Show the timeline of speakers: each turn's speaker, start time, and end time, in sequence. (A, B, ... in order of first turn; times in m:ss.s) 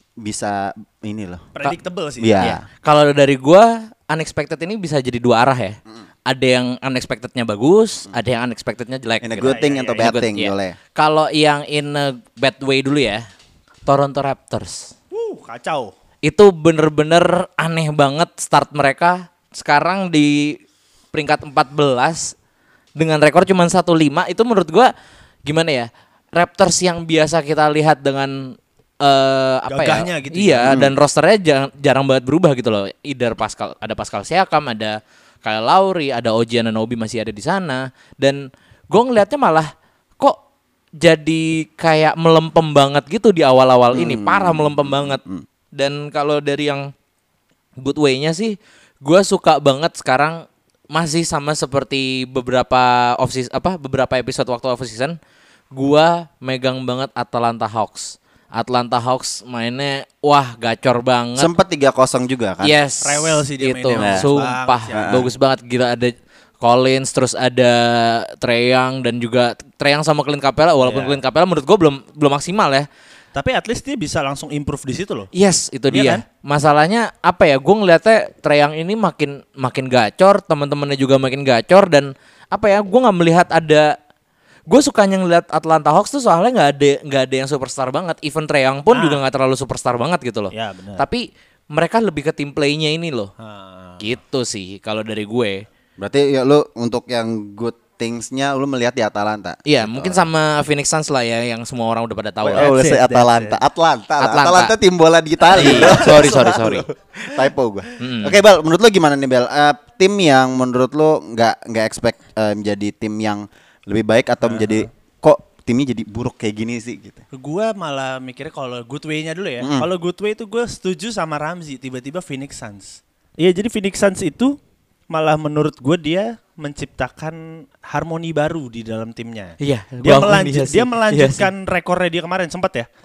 0:00.2-0:01.5 A
0:01.5-0:02.5 B
0:02.2-0:02.6 A
0:02.4-0:13.2 C
0:09.2-0:10.8 A
0:09.4-0:10.1 B
0:13.8-0:14.9 C
0:15.1-0:15.9 B
0:16.2-0:20.6 C
0:21.1-0:22.3 C
0:23.0-0:24.9 C
0:25.4-0:40.4 C
0:29.7-0:30.8 B
0:30.7-0:30.9 A
0:41.0-0:45.2 C
0:43.9-0:45.4 A
0:45.7-0:46.9 C
0:47.8-0:55.2 C
0:55.7-1:01.5 C
1:01.4-1:02.7 A
1:02.6-1:12.9 C
1:03.0-1:05.3 B
1:04.0-1:04.2 A
1:04.9-1:05.3 A
1:10.8-1:11.2 B
1:13.3-1:15.3 B
1:15.3-1:24.0 C
1:15.9-1:16.2 B
1:24.7-1:33.3 C
1:28.9-1:29.2 B
1:30.5-1:31.0 B
1:33.4-1:34.0 B
1:34.0-1:35.6 C
1:36.0-1:40.2 A
1:39.6-1:42.7 C
1:42.4-1:43.6 B
1:42.5-1:57.2 A
1:44.2-1:44.7 C
1:45.5-1:46.9 C
1:45.5-1:46.2 B
1:48.0-1:48.4 C
1:54.4-1:54.8 B
1:57.3-2:04.6 B
1:59.6-1:59.9 A
2:05.1-2:12.9 B
2:09.6-2:11.5 C